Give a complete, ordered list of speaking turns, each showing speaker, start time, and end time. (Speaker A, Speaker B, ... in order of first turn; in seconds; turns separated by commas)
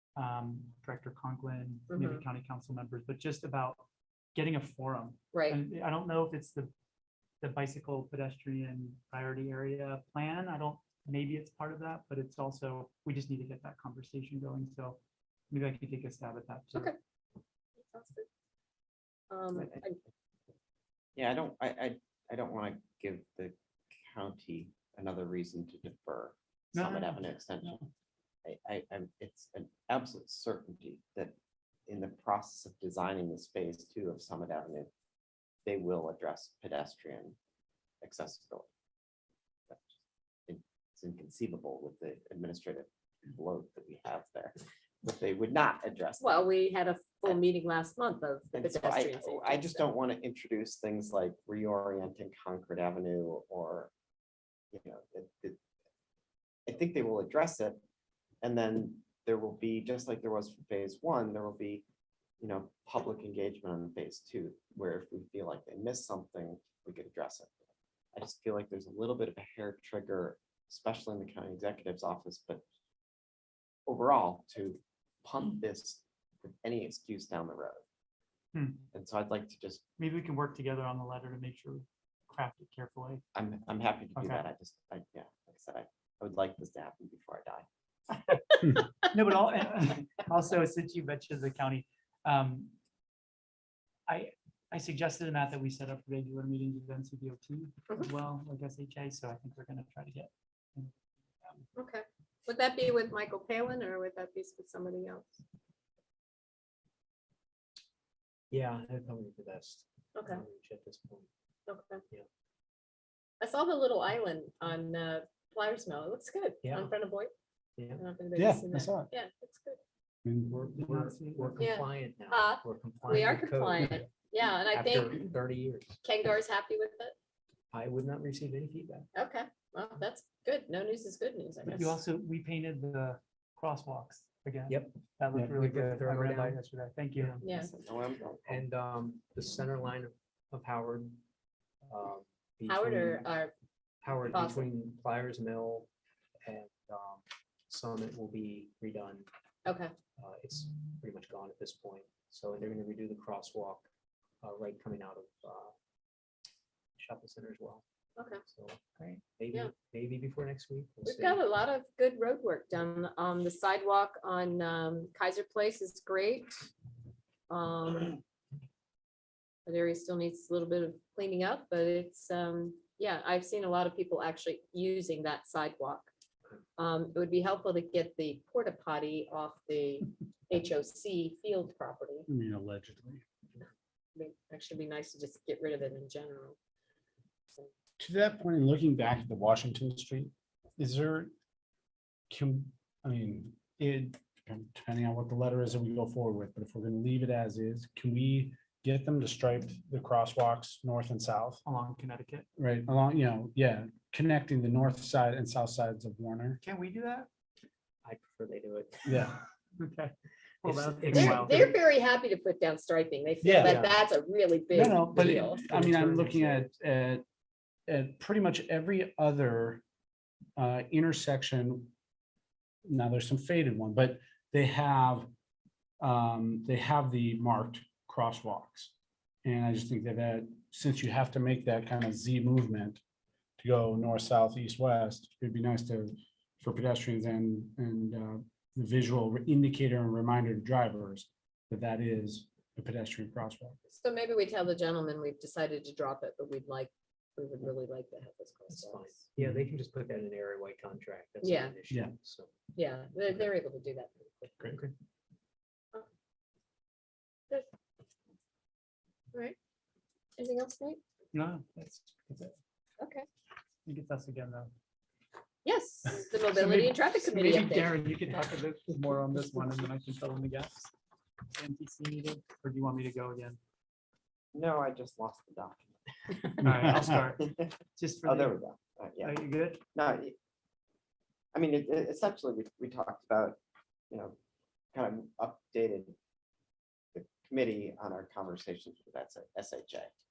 Speaker A: 0.2-6.7, Speaker B: 1.9-2.2, Speaker B: 5.3-5.6, Speaker A: 7.4-15.0, Speaker A: 15.5-16.9, Speaker B: 17.8-18.3, Speaker B: 19.3-19.9, Speaker C: 19.5-19.9, Speaker C: 21.2-27.8, Speaker A: 26.7-27.9, Speaker C: 28.4-31.4, Speaker C: 31.9-34.9, Speaker C: 35.7-37.4, Speaker C: 38.0-38.7, Speaker C: 39.7-40.0, Speaker C: 40.5-46.5, Speaker B: 46.2-49.9, Speaker C: 48.5-53.9, Speaker C: 54.7-55.6, Speaker C: 56.7-57.8, Speaker C: 58.4-61.9, Speaker C: 62.4-67.6, Speaker C: 68.2-72.6, Speaker C: 73.9-77.8, Speaker A: 78.5-78.9, Speaker C: 78.9-79.8, Speaker A: 80.0-83.2, Speaker C: 83.3-87.7, Speaker A: 84.2-84.5, Speaker B: 88.3-89.1, Speaker A: 89.1-92.7, Speaker A: 94.1-100.9, Speaker B: 101.8-105.4, Speaker D: 108.5-111.3, Speaker B: 110.2-110.4, Speaker B: 111.7-112.0, Speaker B: 113.4-117.3, Speaker D: 116.6-116.9, Speaker D: 117.8-118.0, Speaker B: 118.0-119.8, Speaker E: 118.4-119.1, Speaker E: 120.2-120.5, Speaker D: 120.5-126.0, Speaker A: 120.8-121.7, Speaker B: 121.6-125.2, Speaker B: 126.0-127.1, Speaker D: 127.7-129.1, Speaker B: 129.2-132.0, Speaker A: 131.7-137.4, Speaker D: 134.7-136.6, Speaker D: 137.2-137.4, Speaker C: 137.4-138.6, Speaker B: 137.4-137.7, Speaker D: 138.4-141.2, Speaker D: 141.9-143.4, Speaker B: 142.7-143.5, Speaker D: 144.0-145.9, Speaker B: 144.3-144.7, Speaker D: 146.4-149.3, Speaker B: 149.7-150.0, Speaker D: 150.1-153.9, Speaker D: 154.4-155.7, Speaker D: 157.0-157.8, Speaker D: 158.5-158.8, Speaker A: 159.0-159.2, Speaker D: 159.4-161.4, Speaker B: 161.1-166.7, Speaker B: 167.5-168.2, Speaker B: 169.7-176.1, Speaker B: 176.8-182.3, Speaker E: 182.3-183.2, Speaker B: 184.2-186.6, Speaker E: 188.0-191.3, Speaker E: 192.3-201.6, Speaker A: 201.6-202.5, Speaker E: 202.6-206.6, Speaker A: 206.6-207.3, Speaker D: 208.0-209.2, Speaker E: 209.1-209.4, Speaker A: 209.8-211.7, Speaker D: 210.6-211.7, Speaker B: 211.1-215.7, Speaker E: 213.4-213.9, Speaker D: 213.6-214.0, Speaker E: 214.7-217.2, Speaker D: 215.0-216.7, Speaker E: 217.9-219.8, Speaker E: 220.6-221.9, Speaker E: 222.9-225.3, Speaker E: 226.0-228.9, Speaker E: 229.4-233.0, Speaker E: 233.6-243.8, Speaker B: 243.9-249.2, Speaker D: 248.7-252.7, Speaker B: 251.4-251.8, Speaker B: 252.7-254.2, Speaker D: 254.3-254.9, Speaker B: 260.4-261.0, Speaker A: 261.3-262.6, Speaker B: 263.0-263.3, Speaker A: 263.9-264.7, Speaker B: 265.6-268.0, Speaker A: 266.5-270.9, Speaker A: 271.5-273.6, Speaker C: 274.6-276.2, Speaker A: 276.6-278.6, Speaker E: 276.6-277.2, Speaker C: 277.4-277.7, Speaker C: 278.2-279.4, Speaker A: 279.2-279.8, Speaker C: 279.9-280.4, Speaker C: 281.5-283.6, Speaker C: 284.1-284.4, Speaker C: 284.9-286.1, Speaker C: 287.1-290.1